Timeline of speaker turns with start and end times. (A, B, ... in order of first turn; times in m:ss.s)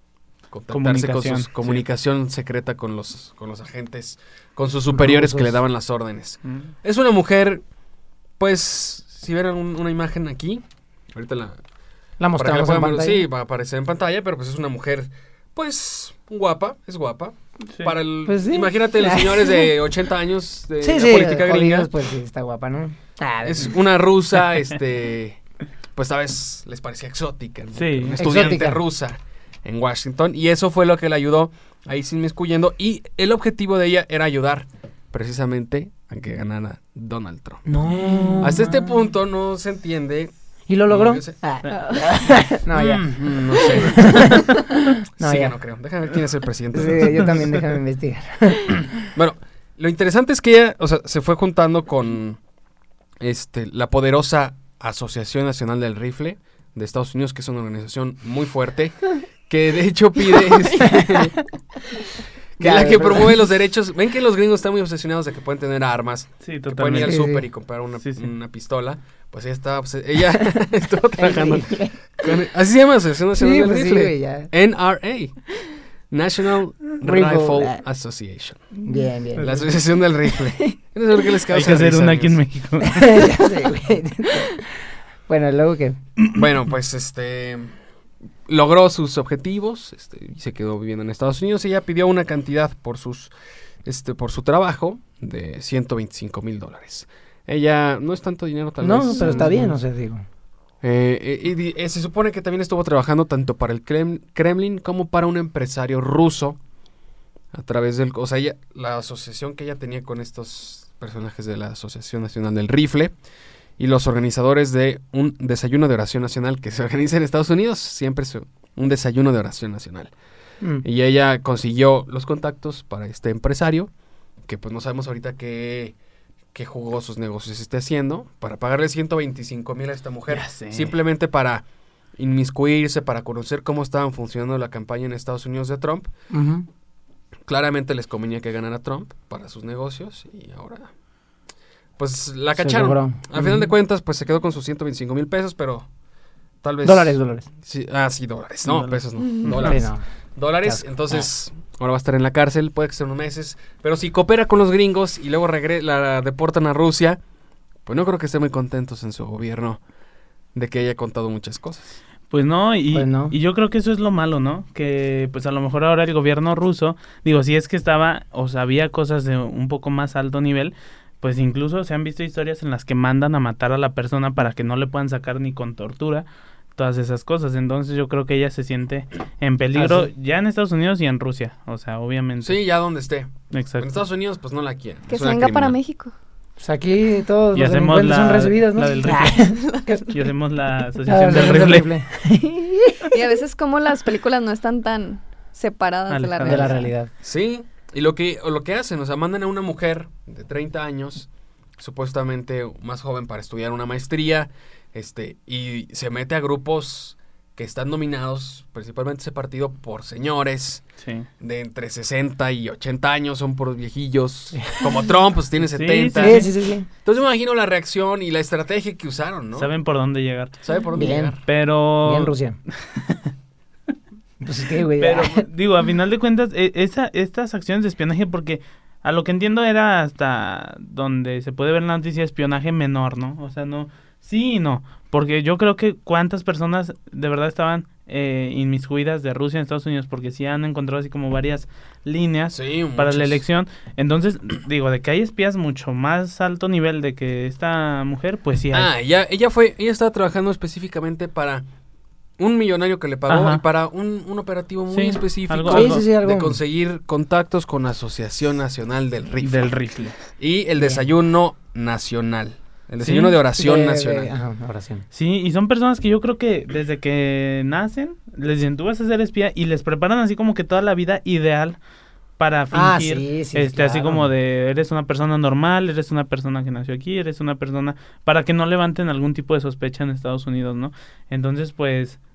0:00.5-0:07.6 A
0:00.7-0:01.8 B
0:04.9-0:05.6 C
0:08.4-0:11.6 A
0:12.2-0:13.2 C
0:12.4-0:21.9 A
0:18.3-0:19.7 C
0:20.8-0:23.8 C
0:23.4-0:25.4 A
0:26.0-0:37.7 A
0:27.8-0:28.5 B
0:28.2-0:28.8 C
0:37.7-0:38.8 C
0:38.1-0:38.4 B
0:38.4-0:40.3 A
0:40.7-0:45.6 C
0:40.9-0:41.4 A
0:41.7-0:42.0 D
0:42.7-0:44.5 A
0:45.2-0:47.6 A
0:46.7-0:48.8 C
0:49.1-0:52.4 A
0:53.2-1:01.4 A
1:02.6-1:15.4 A
1:02.6-1:03.4 C
1:06.4-1:07.2 B
1:07.0-1:07.4 C
1:08.0-1:08.3 B
1:11.2-1:12.0 C
1:13.3-1:14.5 C
1:16.1-1:18.7 A
1:17.0-1:17.8 C
1:18.8-1:19.7 C
1:19.4-1:22.4 A
1:21.5-1:23.4 B
1:22.8-1:24.7 C
1:25.3-1:26.0 C
1:26.3-1:27.7 A
1:28.5-1:33.3 A
1:33.8-1:39.7 A
1:38.8-1:40.2 C
1:40.8-1:46.6 A
1:47.5-1:53.1 A
1:53.8-2:00.1 A
2:00.8-2:03.9 A
2:04.5-2:06.0 A
2:06.5-2:11.6 A
2:10.3-2:10.9 B
2:12.2-2:16.1 A
2:16.3-2:16.7 C
2:17.5-2:20.9 A
2:22.0-2:25.9 A
2:22.6-2:23.7 C
2:26.6-2:37.2 A
2:26.8-2:27.5 C
2:28.6-2:29.7 B
2:29.6-2:30.0 C
2:30.6-2:31.2 C
2:37.9-2:39.8 A
2:40.5-2:42.0 A
2:42.3-3:02.6 B
2:42.9-2:43.3 C
2:59.8-3:00.1 C
3:02.4-3:05.8 A
3:03.5-3:04.0 B
3:05.1-3:06.1 D
3:06.6-3:10.1 C
3:07.6-3:09.5 B
3:09.5-3:09.8 D
3:10.1-3:11.9 B
3:11.1-3:13.2 C
3:13.1-3:16.9 D
3:16.1-3:16.8 B
3:16.4-3:17.1 C
3:17.2-3:21.3 A
3:21.8-3:30.8 A
3:31.0-3:31.3 B
3:31.4-3:36.5 A
3:35.7-3:36.5 B
3:36.2-3:36.9 C
3:37.0-3:39.7 A
3:39.6-3:40.6 B
3:40.6-3:41.4 A
3:41.0-3:41.4 C
3:41.5-3:42.3 B
3:42.0-3:42.6 C
3:42.9-3:43.3 B
3:44.4-3:45.5 C
3:45.0-4:08.9 B
4:02.5-4:03.4 A
4:08.7-4:11.6 A
4:12.4-4:19.7 A
4:13.3-4:13.6 B
4:14.9-4:16.1 B
4:15.7-4:16.6 C
4:19.4-4:20.2 B
4:20.4-4:24.3 A
4:23.0-4:23.4 B
4:23.6-4:25.1 C
4:25.1-4:31.8 B
4:32.4-4:42.2 B
4:32.7-4:34.3 C